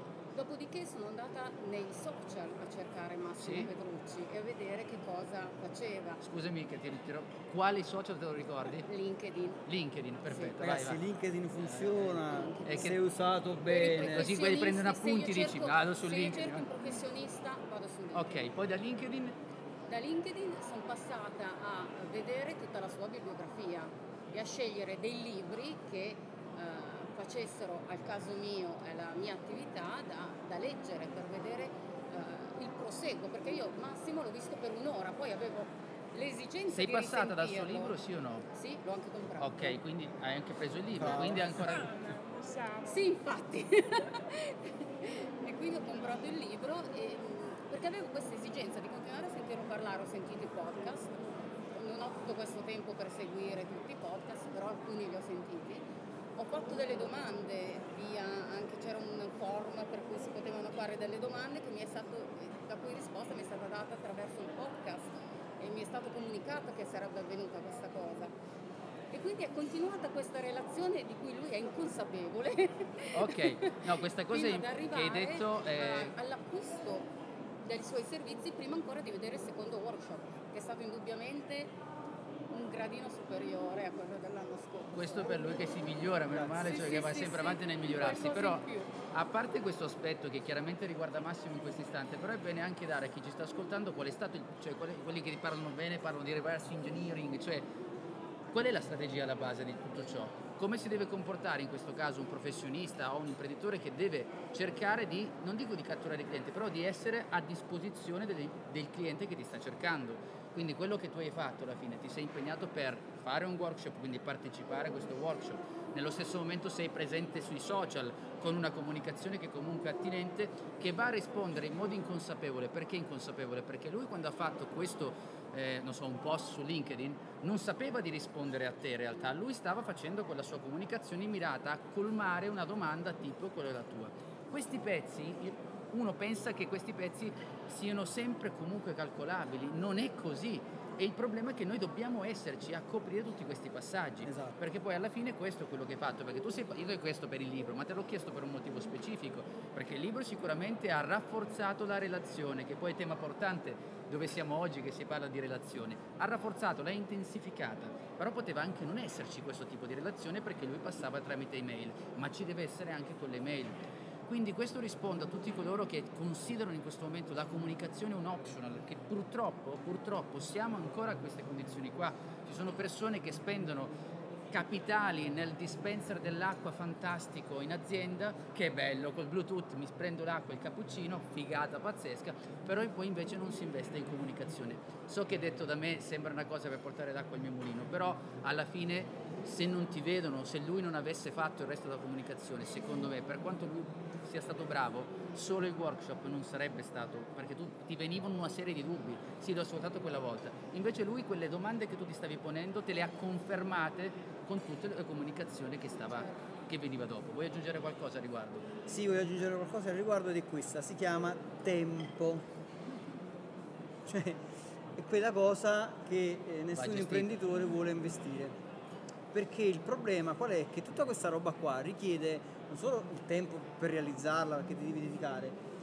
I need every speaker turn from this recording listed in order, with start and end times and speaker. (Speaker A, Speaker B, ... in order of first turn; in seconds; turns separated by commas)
Speaker A: 0.3-6.2, Speaker B: 3.4-3.7, Speaker B: 6.2-8.9, Speaker A: 8.8-9.6, Speaker B: 9.7-11.0, Speaker A: 10.3-10.6, Speaker C: 10.6-14.3, Speaker A: 12.2-13.0, Speaker B: 12.7-13.0, Speaker A: 13.7-18.5, Speaker B: 13.8-16.7, Speaker B: 18.1-19.4, Speaker A: 19.9-38.0, Speaker B: 36.7-38.5, Speaker A: 38.5-39.8, Speaker B: 39.4-41.9, Speaker C: 41.0-41.4, Speaker D: 41.1-43.1, Speaker A: 42.8-51.1, Speaker A: 51.7-55.8, Speaker A: 56.4-68.3, Speaker A: 69.1-77.1, Speaker B: 73.1-76.1, Speaker A: 77.6-81.7, Speaker A: 82.5-85.8, Speaker B: 84.9-97.7, Speaker A: 86.4-88.9, Speaker B: 98.5-173.9, Speaker C: 144.2-144.6, Speaker B: 174.5-208.6, Speaker A: 206.1-206.4, Speaker C: 208.9-212.4, Speaker C: 214.1-214.4, Speaker C: 214.9-218.6, Speaker B: 216.7-217.4, Speaker C: 219.3-225.6